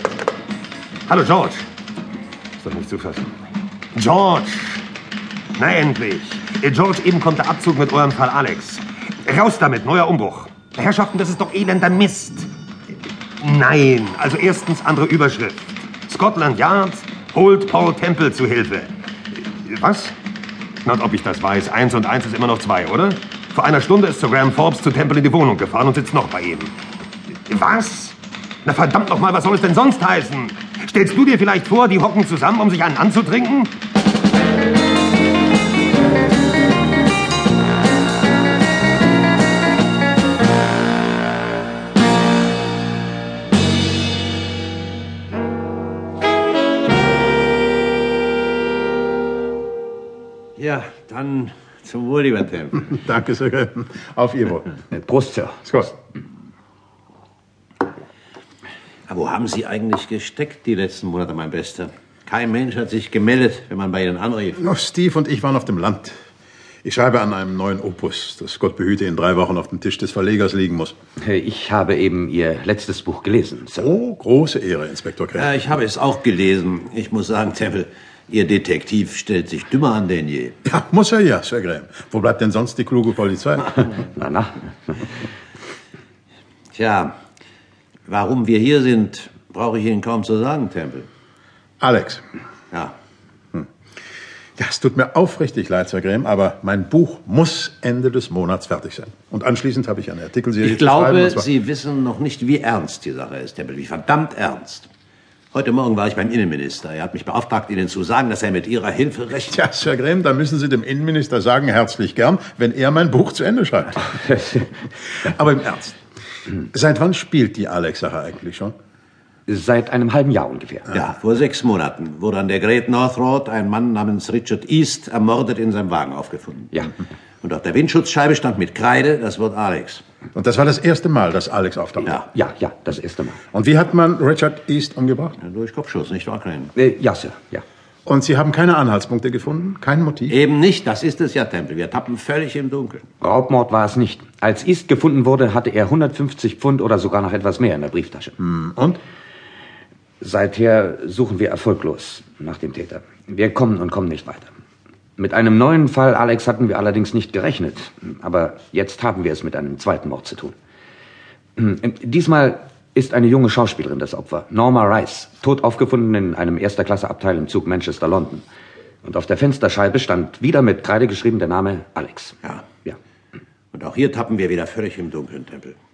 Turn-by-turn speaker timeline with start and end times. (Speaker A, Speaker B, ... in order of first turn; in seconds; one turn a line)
Speaker A: 1.1-1.7
Speaker A: 2.6-3.3
Speaker A: 3.9-4.8
Speaker A: 5.6-12.5
Speaker A: 13.4-20.2
Speaker A: 20.8-26.8
Speaker A: 27.4-33.8
Speaker B: 50.6-52.9
Speaker C: 52.9-54.7
Speaker D: 54.9-55.8
Speaker C: 55.7-55.9
Speaker B: 59.1-64.6
Speaker C: 64.6-66.2
Speaker C: 66.8-71.0
Speaker D: 71.2-73.9
Speaker C: 73.8-75.5
Speaker B: 75.4-80.6
Speaker C: 80.7-83.8
Speaker D: 84.0-84.9
Speaker B: 86.7-87.1
Speaker B: 88.1-91.1
Speaker C: 91.8-92.2
Speaker C: 94.6-101.5
Speaker B: 100.6-104.9
Speaker B: 105.5-109.6
Speaker C: 109.5-114.6
Speaker C: 115.2-116.0
Speaker C: 116.7-118.7
Speaker D: 119.5-120.9
Speaker B: 120.9-126.9
Speaker B: 127.4-130.0
Speaker C: 130.3-132.2
Speaker D: 132.3-133.4
Speaker C: 133.5-135.4
Speaker B: 135.4-136.7
Speaker D: 136.8-137.6
Speaker C: 138.1-140.3
Speaker B: 140.3-143.1
Speaker D: 143.2-148.4
Speaker C: 148.4-149.0
Speaker D: 150.2-154.5
Speaker D: 155.2-160.6
Speaker D: 161.6-168.4
Speaker D: 169.0-173.0
Speaker B: 173.7-175.8